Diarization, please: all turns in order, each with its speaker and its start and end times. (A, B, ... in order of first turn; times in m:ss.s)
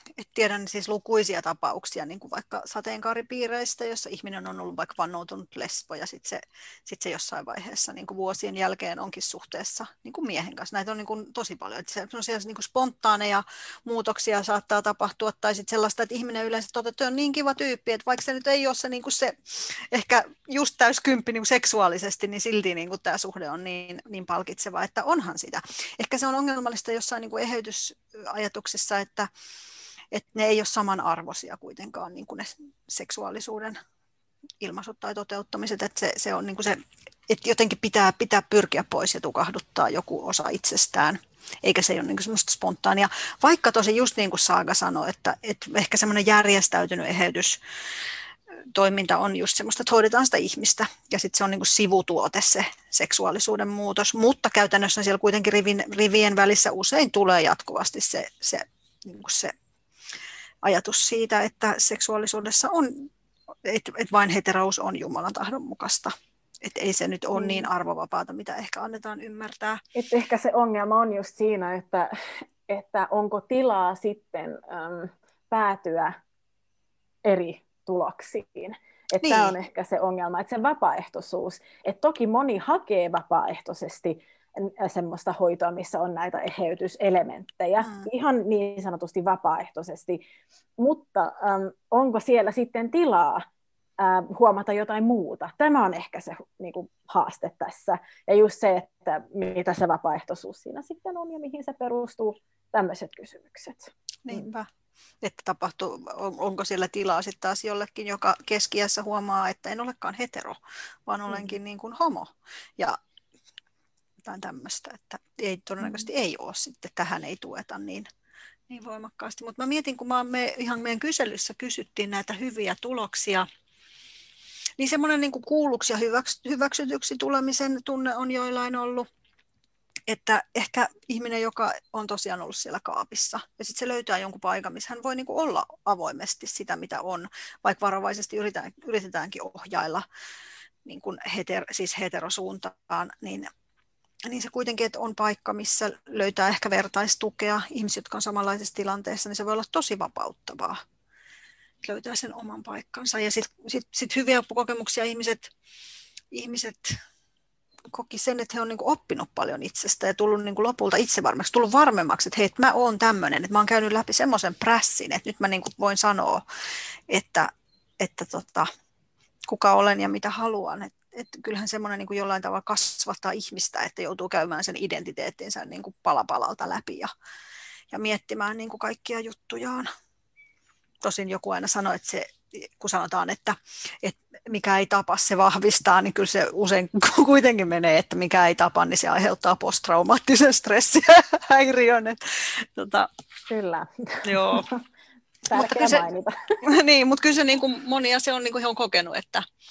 0:00.2-0:29.3 A
0:30.1-0:33.8 A
0:34.6-0:47.6 A
0:48.7-0:59.6 A
1:00.6-1:03.1 A
1:03.6-1:09.8 A
1:07.4-1:07.7 B
1:10.0-1:12.1 B
1:12.7-1:16.2 B
1:17.2-1:30.2 B
1:19.2-1:19.5 A
1:27.8-1:28.1 A
1:30.8-1:33.4 B
1:34.0-1:44.5 B
1:44.2-1:44.7 A
1:45.2-1:53.0 A
1:51.3-1:51.6 B
1:54.2-1:58.1 A
1:58.7-2:03.5 A
2:04.8-2:09.1 A
2:10.1-2:20.1 A
2:20.8-2:23.5 A
2:24.2-2:30.8 A
2:31.8-2:35.5 A
2:36.3-2:37.0 A
2:37.9-2:46.4 A
2:47.1-2:48.7 A
2:49.5-2:57.1 A
2:57.9-2:59.9 A
3:01.0-3:13.1 A
3:13.5-3:14.8 B
3:14.2-3:14.7 A
3:15.5-3:16.6 B
3:15.5-3:16.1 A
3:16.6-3:19.5 A